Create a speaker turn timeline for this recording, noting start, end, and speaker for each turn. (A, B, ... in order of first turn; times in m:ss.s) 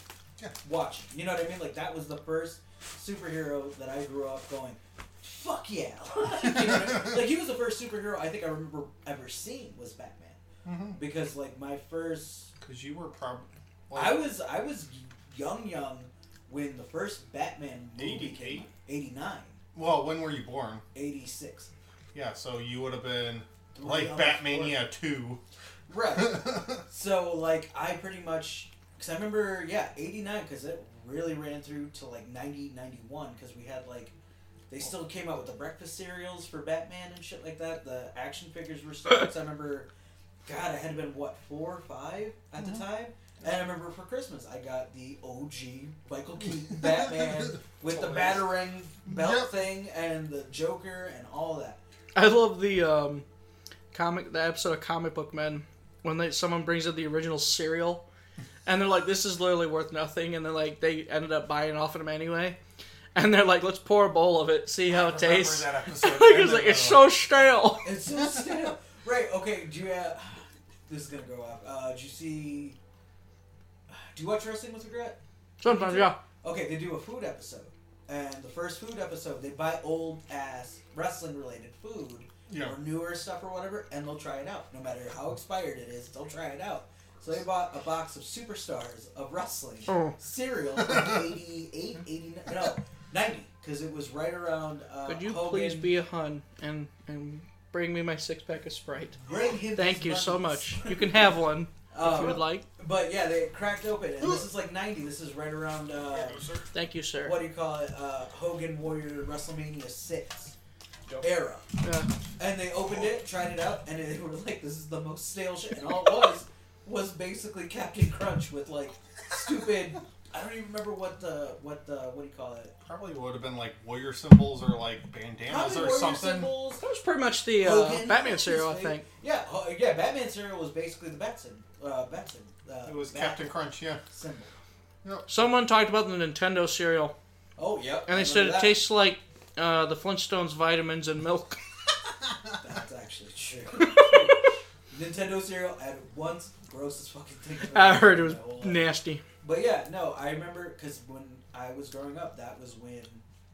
0:00.6-0:10.4 A
0:06.5-0:07.1 B
0:10.6-0:11.0 B
0:10.9-0:12.5 A
0:12.6-0:14.3 B
0:13.9-0:19.6 A
0:18.0-0:18.7 B
0:19.7-0:20.8 B
0:20.9-0:21.7 A
0:22.1-0:25.4 B
0:23.7-0:24.8 A
0:25.9-0:34.1 A
0:26.2-0:26.8 B
0:34.7-0:39.9 A
0:40.4-0:51.8 A
0:47.9-0:48.5 B
0:49.0-0:49.5 B
0:52.1-0:53.2 C
0:53.9-0:58.0 C
0:58.6-1:02.6 C
1:03.1-1:07.9 C
1:04.8-1:07.1 B
1:07.8-1:12.8 A
1:08.1-1:08.4 B
1:13.9-1:35.9 A
1:15.6-1:16.2 C
1:22.5-1:22.7 B
1:29.9-1:30.2 C
1:35.0-1:39.2 C
1:39.2-1:41.1 A
1:39.7-1:42.6 C
1:41.9-1:46.4 A
1:46.0-1:46.7 B
1:46.7-1:47.4 C
1:47.2-1:50.5 A
1:51.2-1:51.6 A
1:51.8-1:52.1 C
1:52.4-2:02.7 A
2:02.8-2:06.5 B
2:05.4-2:06.8 A
2:06.8-2:09.0 C
2:07.6-2:13.5 A
2:12.9-2:14.0 B
2:14.1-2:14.5 A
2:15.0-2:15.3 B
2:15.3-2:17.1 C
2:17.6-2:18.8 A
2:18.1-2:21.6 C
2:22.6-2:28.8 A
2:23.8-2:24.3 C
2:27.6-2:29.2 C
2:29.4-2:33.2 A